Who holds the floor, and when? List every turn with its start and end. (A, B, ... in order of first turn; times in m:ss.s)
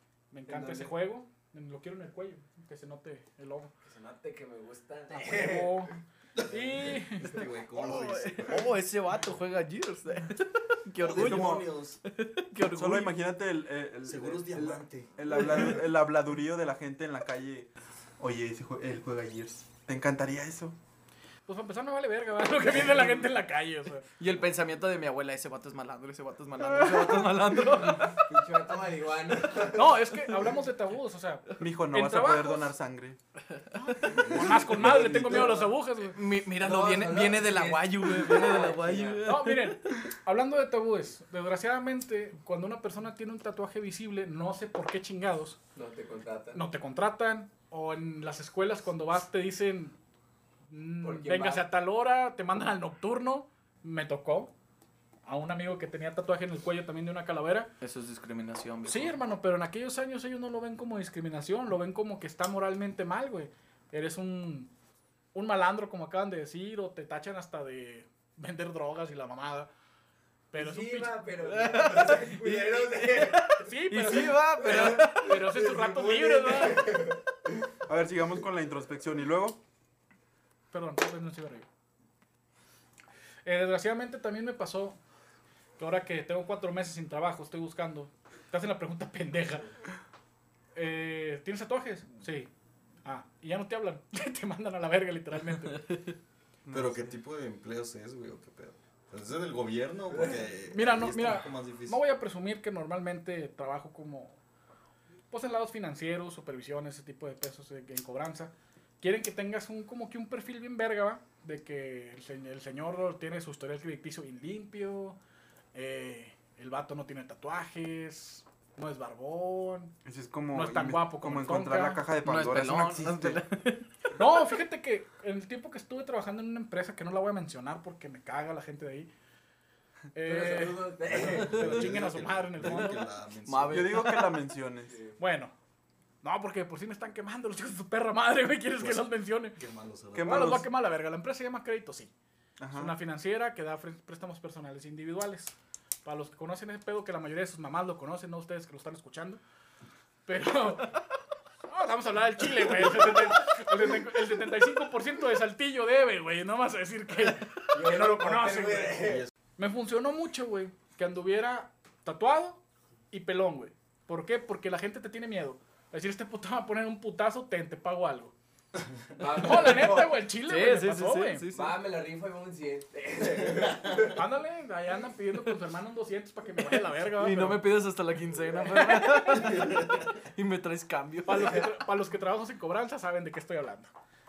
0:00.3-0:03.7 A
0:00.5-0:00.9 B
0:03.8-0:05.9 B
0:05.1-0:07.4 A
0:06.4-0:08.7 C
0:07.7-0:13.1 D
0:11.0-0:12.0 C
0:11.1-0:11.6 E
0:12.7-0:17.7 E
0:14.0-0:15.6 C
0:18.2-0:20.8 E
0:21.5-0:24.1 A
0:24.2-0:28.2 D
0:26.8-0:27.3 E
0:28.0-0:29.9 B
0:29.7-0:32.7 A
0:31.6-0:33.2 E
0:33.8-0:36.2 A
0:34.1-0:35.7 C
0:36.1-0:39.9 D
0:36.6-0:39.2 B
0:39.2-0:45.6 A
0:45.7-0:46.6 B
0:46.5-0:50.0 A
0:50.7-0:54.5 A
0:51.0-0:51.6 B
0:55.2-0:57.7 A
0:57.8-0:59.2 D
0:58.8-1:04.7 A
1:05.3-1:09.7 A
1:10.5-1:11.2 A
1:10.5-1:13.6 B
1:11.4-1:15.4 D
1:13.6-1:17.0 A
1:14.3-1:17.2 B
1:17.9-1:19.6 E
1:20.7-1:21.7 A
1:23.4-1:25.0 A
1:25.8-1:29.7 A
1:30.7-1:32.5 A
1:33.0-1:35.8 A
1:35.7-1:36.1 D
1:36.6-1:37.1 E
1:36.7-1:42.0 C
1:40.1-1:40.4 B
1:40.7-1:44.4 A
1:45.3-1:55.2 A
1:55.7-1:59.9 A
2:00.0-2:03.4 E
2:00.5-2:02.0 A
2:02.2-2:03.9 D
2:04.1-2:09.1 A
2:10.1-2:13.0 A
2:10.2-2:11.9 B
2:11.0-2:14.0 C
2:13.4-2:14.3 D
2:13.7-2:14.9 E
2:14.9-2:15.2 B
2:15.2-2:15.5 A
2:16.2-2:19.6 A
2:18.8-2:20.6 C
2:20.1-2:20.6 E
2:20.2-2:22.1 A
2:22.6-2:23.0 E
2:22.7-2:29.4 A
2:30.2-2:30.9 A
2:31.7-2:48.3 A
2:37.7-2:39.2 B
2:39.0-2:39.3 C
2:48.8-2:49.1 C
2:49.2-2:50.2 B
2:49.4-2:51.4 A
2:50.4-2:51.8 D
2:51.5-2:54.2 B
2:53.6-2:54.0 C
2:54.1-2:57.6 A
2:56.8-3:01.7 D
2:58.8-2:59.5 A
2:59.4-3:00.1 C
3:01.2-3:03.9 A